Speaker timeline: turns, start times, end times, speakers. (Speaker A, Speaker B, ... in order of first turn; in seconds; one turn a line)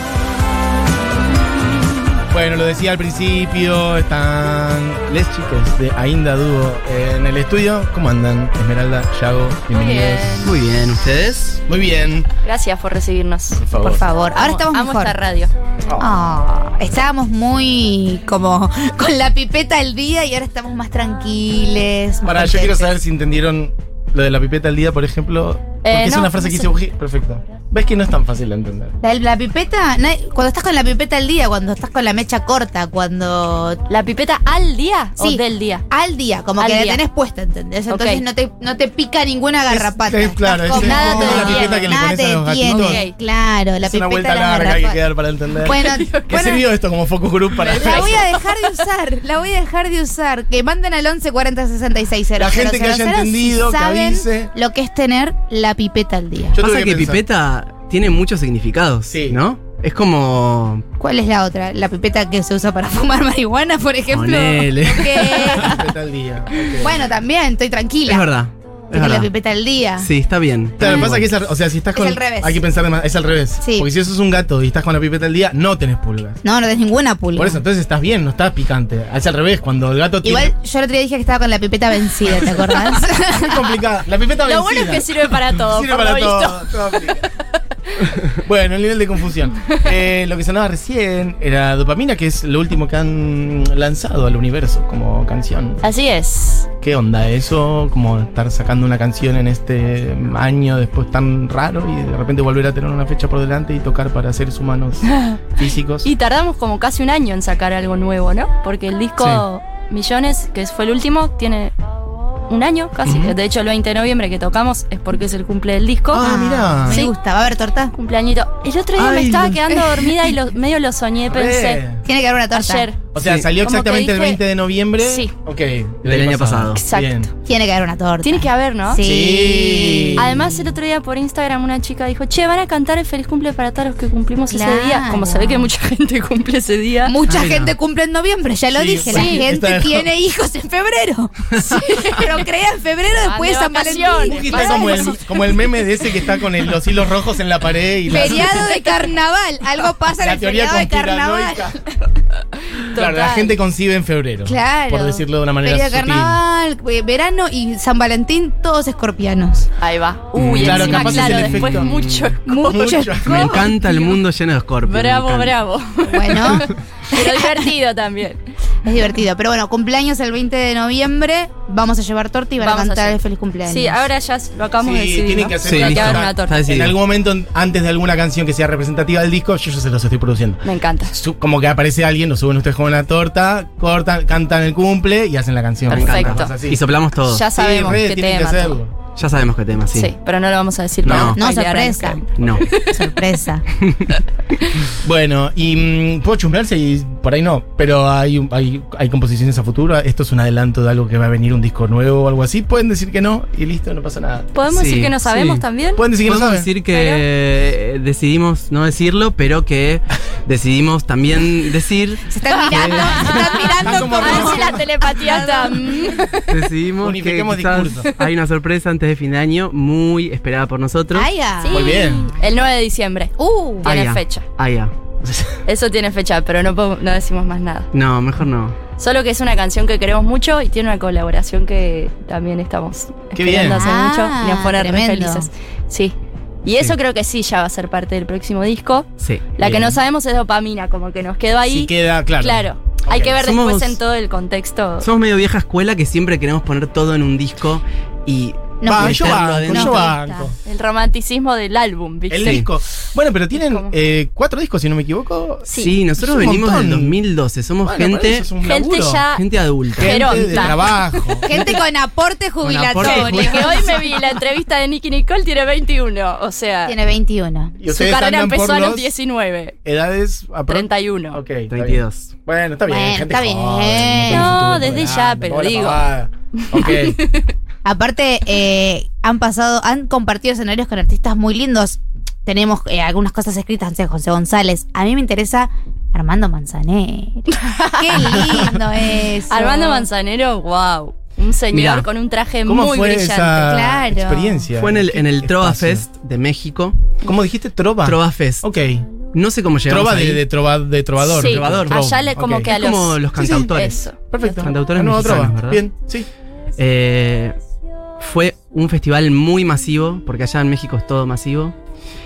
Speaker A: 2.3-10.6
Speaker B: 9.7-10.5
Speaker C: 10.4-11.6
Speaker A: 11.7-12.3
Speaker B: 12.4-13.7
Speaker A: 13.6-14.1
Speaker D: 13.8-15.2
Speaker B: 14.3-15.5
Speaker A: 15.8-16.1
Speaker D: 16.0-22.9
Speaker A: 22.2-28.9
Speaker B: 25.8-26.7
Speaker D: 29.0-33.8
Speaker B: 33.9-35.9
Speaker D: 35.2-45.0
Speaker B: 36.6-37.0
Speaker B: 37.9-38.2
Speaker A: 39.7-43.0
Speaker B: 40.6-42.0
Speaker B: 42.7-43.1
Speaker A: 43.8-48.2
Speaker D: 45.6-46.6
Speaker B: 45.6-46.4
Speaker B: 47.6-48.8
Speaker D: 47.7-56.6
Speaker A: 52.4-54.5
Speaker A: 56.5-57.2
Speaker C: 56.6-60.8
Speaker A: 59.1-59.4
Speaker D: 61.0-65.9
Speaker C: 64.1-65.7
Speaker A: 65.6-67.0
Speaker D: 66.7-68.3
Speaker C: 68.1-69.3
Speaker D: 68.9-70.1
Speaker C: 70.0-71.3
Speaker A: 70.8-76.4
Speaker D: 70.8-71.2
Speaker D: 71.9-72.6
Speaker D: 73.6-73.9
Speaker D: 76.4-77.6
Speaker A: 77.3-80.5
Speaker D: 80.2-83.8
Speaker A: 82.3-87.3
Speaker B: 84.4-87.2
Speaker A: 88.2-95.8
Speaker B: 95.8-96.7
Speaker A: 96.8-106.1
Speaker B: 105.1-105.4
Speaker B: 106.0-111.7
Speaker C: 109.2-109.5
Speaker B: 112.5-116.3
Speaker A: 113.0-113.4
Speaker A: 116.1-117.1
Speaker D: 116.2-117.9
Speaker B: 116.9-117.2
Speaker B: 117.9-121.9
Speaker C: 119.0-120.0
Speaker A: 121.3-122.0
Speaker D: 122.0-122.9
Speaker B: 122.5-124.4
Speaker A: 123.1-127.3
Speaker C: 123.2-123.5
Speaker B: 125.0-125.3
Speaker C: 126.0-126.8
Speaker B: 126.8-127.3
Speaker D: 127.5-130.4
Speaker B: 128.2-129.1
Speaker A: 129.0-130.5
Speaker B: 130.2-137.2
Speaker D: 134.5-135.7
Speaker D: 137.0-145.2
Speaker C: 137.3-137.7
Speaker A: 138.7-140.1
Speaker B: 139.1-139.5
Speaker C: 141.6-142.1
Speaker B: 141.7-142.3
Speaker B: 143.1-145.2
Speaker A: 144.2-148.8
Speaker D: 148.1-151.7
Speaker A: 150.2-151.8
Speaker B: 152.8-153.6
Speaker A: 152.9-156.4
Speaker D: 154.4-159.7
Speaker B: 159.8-164.2
Speaker C: 160.3-162.4
Speaker A: 160.6-161.9
Speaker D: 162.5-163.7
Speaker A: 162.5-163.7
Speaker C: 163.2-165.6
Speaker B: 164.8-168.4
Speaker D: 166.1-167.7
Speaker D: 168.8-174.1
Speaker B: 172.6-176.6
Speaker A: 174.8-186.8
Speaker C: 175.6-177.0
Speaker B: 180.6-181.1
Speaker C: 185.9-188.0
Speaker B: 185.9-186.6
Speaker B: 187.3-188.8
Speaker A: 187.6-188.9
Speaker C: 189.2-190.1
Speaker B: 189.9-193.0
Speaker C: 191.0-191.4
Speaker A: 191.1-191.4
Speaker D: 191.4-192.2
Speaker C: 192.4-192.7
Speaker D: 192.8-193.7
Speaker C: 193.8-194.1
Speaker A: 195.0-204.5
Speaker B: 204.6-206.1
Speaker C: 204.7-205.6
Speaker A: 206.0-206.7
Speaker C: 206.2-213.5
Speaker B: 206.9-207.2
Speaker D: 212.3-216.2
Speaker B: 212.7-216.5
Speaker A: 213.8-214.9
Speaker C: 216.5-221.3
Speaker A: 217.0-218.1
Speaker D: 221.1-222.0
Speaker B: 221.6-224.5
Speaker A: 221.7-222.3
Speaker D: 223.4-223.9
Speaker C: 223.8-224.9
Speaker A: 225.2-225.6
Speaker B: 225.7-227.9
Speaker C: 227.9-228.8
Speaker B: 229.0-245.1
Speaker A: 233.3-233.8
Speaker D: 233.6-235.5
Speaker C: 239.2-239.5
Speaker A: 239.6-240.0
Speaker A: 241.7-243.4
Speaker C: 243.4-244.0
Speaker C: 245.0-250.1
Speaker D: 248.8-250.5
Speaker A: 248.9-250.6
Speaker B: 250.7-252.7
Speaker A: 252.3-257.2
Speaker B: 253.5-253.9
Speaker C: 255.7-258.5
Speaker B: 255.7-256.0
Speaker A: 257.9-259.2
Speaker B: 258.6-259.4
Speaker C: 259.3-260.7
Speaker B: 260.0-261.6
Speaker A: 260.0-261.5
Speaker D: 261.4-264.1
Speaker C: 262.6-263.6
Speaker A: 262.7-263.7
Speaker B: 263.0-267.0
Speaker D: 266.9-267.8
Speaker A: 267.8-269.1
Speaker B: 267.9-269.8
Speaker A: 269.8-277.2
Speaker B: 270.7-271.4
Speaker C: 271.7-272.3
Speaker D: 272.9-274.6
Speaker B: 274.3-277.5
Speaker D: 277.9-290.1
Speaker B: 287.5-288.6
Speaker B: 289.5-293.9
Speaker C: 291.7-292.1
Speaker A: 292.7-296.1
Speaker D: 293.7-294.7
Speaker C: 294.8-297.0
Speaker A: 297.2-299.1
Speaker C: 298.0-298.7
Speaker C: 299.3-300.4
Speaker A: 299.9-302.7
Speaker C: 301.2-305.9
Speaker B: 301.3-304.7
Speaker A: 303.4-306.3
Speaker C: 306.8-307.6
Speaker C: 308.2-311.8